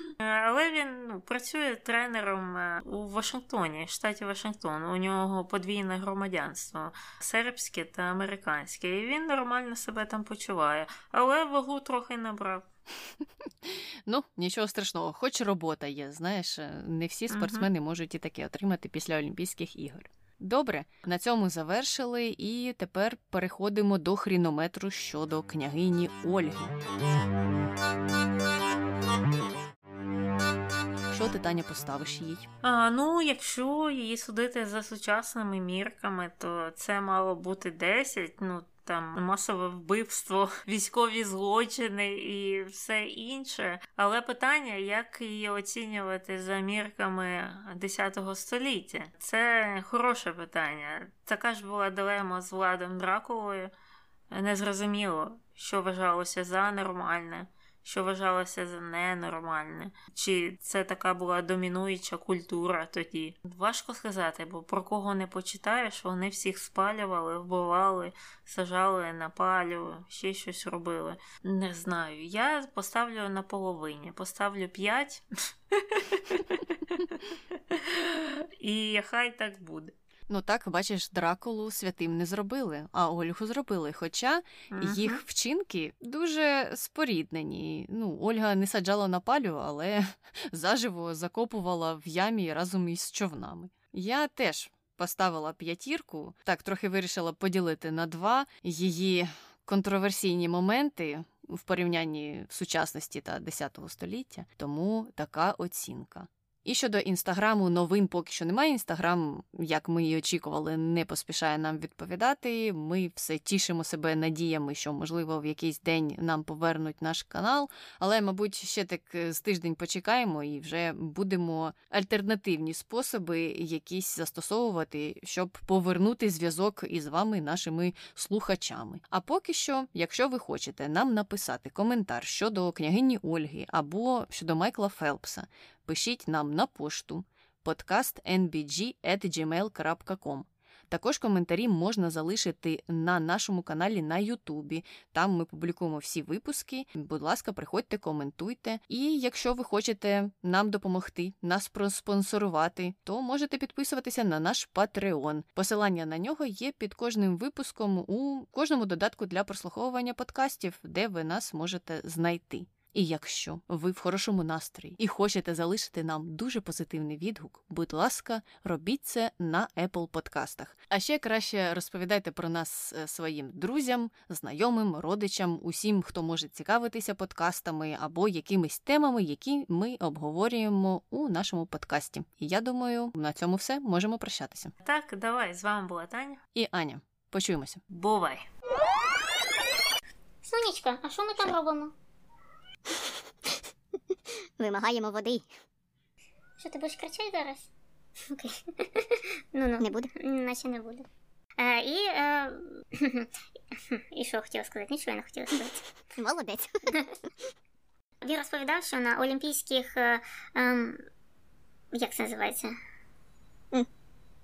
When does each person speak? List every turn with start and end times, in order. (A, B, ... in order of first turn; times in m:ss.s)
0:00.2-0:12.7 A
0:13.6-0:26.8 B
0:17.3-0:17.7 A
0:31.1-0:32.5 B
0:32.6-0:53.7 A
0:54.3-1:19.9 A
1:20.3-3:04.7 B
1:24.7-1:25.2 A
3:04.8-3:06.4 A
3:06.5-3:07.8 B
3:07.9-3:08.4 A
3:10.4-3:11.9 C
3:14.6-3:15.5 D
3:16.6-3:17.7 C
3:18.3-3:21.0 C
3:19.8-3:20.1 D
3:21.6-3:23.3 C
3:23.9-3:25.8 C
3:26.2-3:27.0 D
3:28.2-3:31.0 C
3:31.9-3:32.8 C